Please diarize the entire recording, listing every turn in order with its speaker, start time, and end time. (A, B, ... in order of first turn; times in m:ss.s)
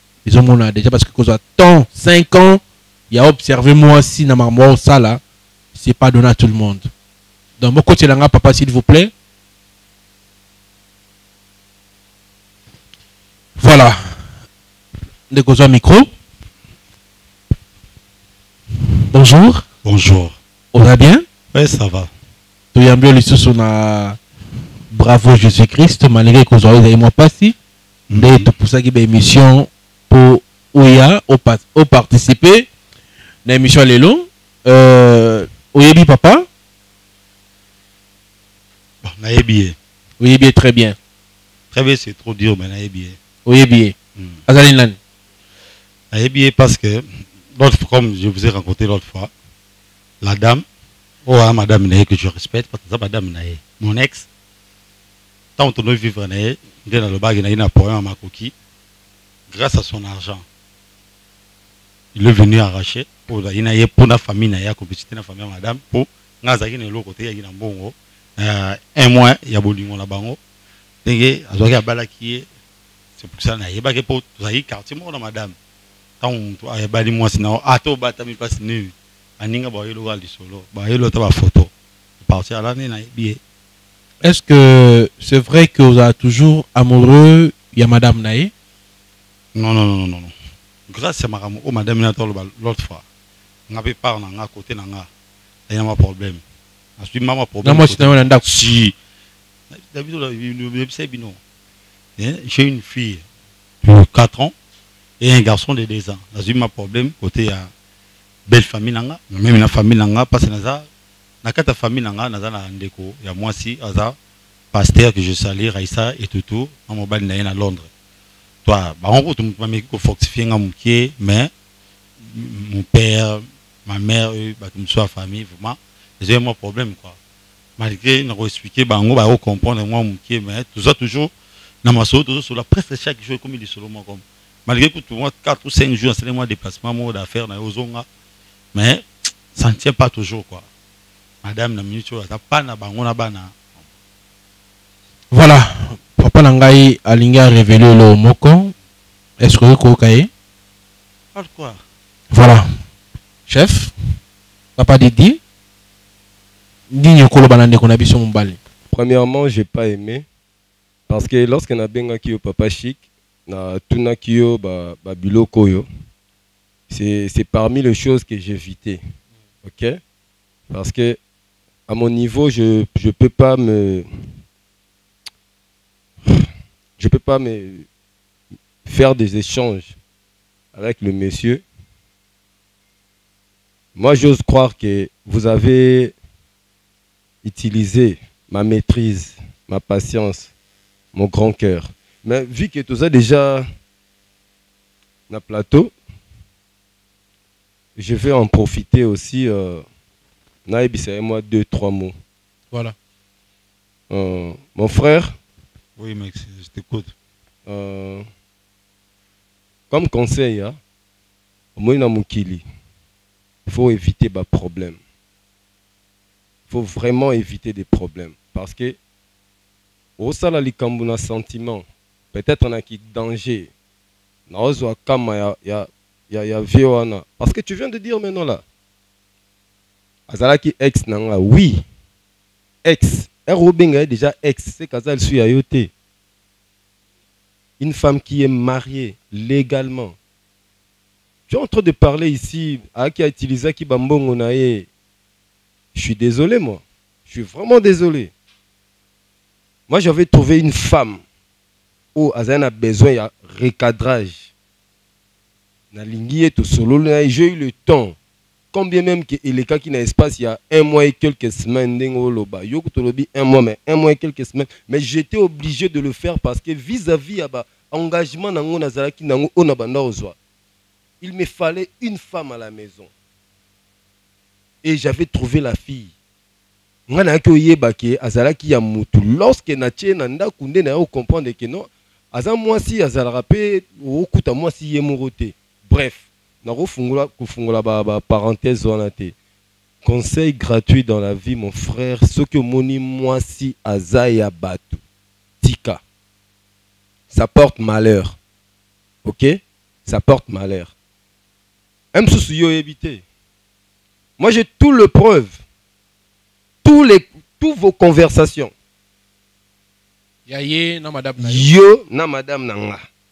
0:00.2-0:05.2 A
0:05.8-0:06.9 A
0:07.6-0:09.1 A
0:13.6-0:14.2 A
0:15.3-0:16.1 A
0:19.1-0:19.7 A
0:19.8-0:20.4 B
0:20.7-0:21.3 A
0:21.5-0:22.1 B
0:22.7-0:24.2 A
0:24.9-0:27.6 A
0:28.1-0:28.5 B
0:28.1-0:32.7 A
0:33.5-0:36.5 A
0:39.0-0:39.8 B
0:40.2-0:41.0 A
0:41.7-0:43.2 B
0:43.5-0:44.0 A
0:44.5-0:45.0 A
0:46.1-0:49.3 B
0:50.2-0:50.6 B
0:51.3-0:54.3 B
0:55.6-0:58.5 B
0:59.5-1:00.4 B
1:02.2-1:10.4 B
1:11.0-1:12.5 B
1:13.2-1:15.6 B
1:16.2-1:21.7 B
1:22.2-1:23.4 B
1:24.2-1:28.5 A
1:29.6-1:30.3 B
1:30.9-1:33.0 B
1:33.7-1:35.1 B
1:35.7-1:36.4 B
1:37.0-1:39.0 B
1:37.6-1:38.4 A
1:39.8-1:41.4 B
1:42.2-1:43.2 B
1:43.8-1:44.5 B
1:45.2-1:47.7 B
1:48.5-1:50.9 B
1:51.4-1:54.2 B
1:54.7-1:57.9 B
1:58.6-2:01.5 B
2:02.2-2:07.2 B
2:07.8-2:11.3 B
2:11.8-2:18.1 B
2:18.7-2:20.7 B
2:21.4-2:23.6 B
2:25.3-2:28.7 A
2:29.4-2:30.3 A
2:31.4-2:31.8 B
2:32.3-2:32.7 A
2:33.5-2:33.9 A
2:34.8-2:35.4 A
2:36.9-2:38.6 A
2:38.9-2:40.2 C
2:41.1-2:45.9 C
2:46.9-2:49.0 C
2:49.6-2:50.0 C
2:50.7-2:51.2 C
2:51.9-2:54.1 C
2:57.0-2:57.9 C
2:58.8-3:00.0 C
3:00.7-3:01.6 C
3:04.0-3:06.2 C
3:07.4-3:10.5 C
3:11.1-3:13.7 C
3:15.3-3:15.9 C
3:18.0-3:19.8 C
3:20.7-3:22.2 C
3:24.1-3:25.4 C
3:26.0-3:27.1 B
3:27.7-3:28.2 C
3:29.9-3:30.8 C
3:31.8-3:32.6 C
3:33.7-3:35.0 C
3:36.7-3:39.0 C
3:40.2-3:43.7 C
3:44.5-3:48.6 C
3:50.3-3:51.8 C
3:52.8-3:55.9 C
3:57.8-4:00.2 C
4:01.5-4:04.9 C
4:06.0-4:08.3 C
4:09.9-4:11.2 C
4:12.2-4:14.5 C
4:15.9-4:18.2 C
4:18.7-4:30.4 C
4:31.2-4:33.1 C
4:34.8-4:36.1 C
4:37.1-4:49.4 C
4:50.0-4:55.0 C
4:55.6-4:56.0 C
4:57.3-4:58.4 C
4:59.2-5:00.9 C
5:02.1-5:03.2 C
5:04.4-5:05.6 C
5:06.8-5:08.7 C
5:10.5-5:11.7 A
5:11.4-5:13.0 C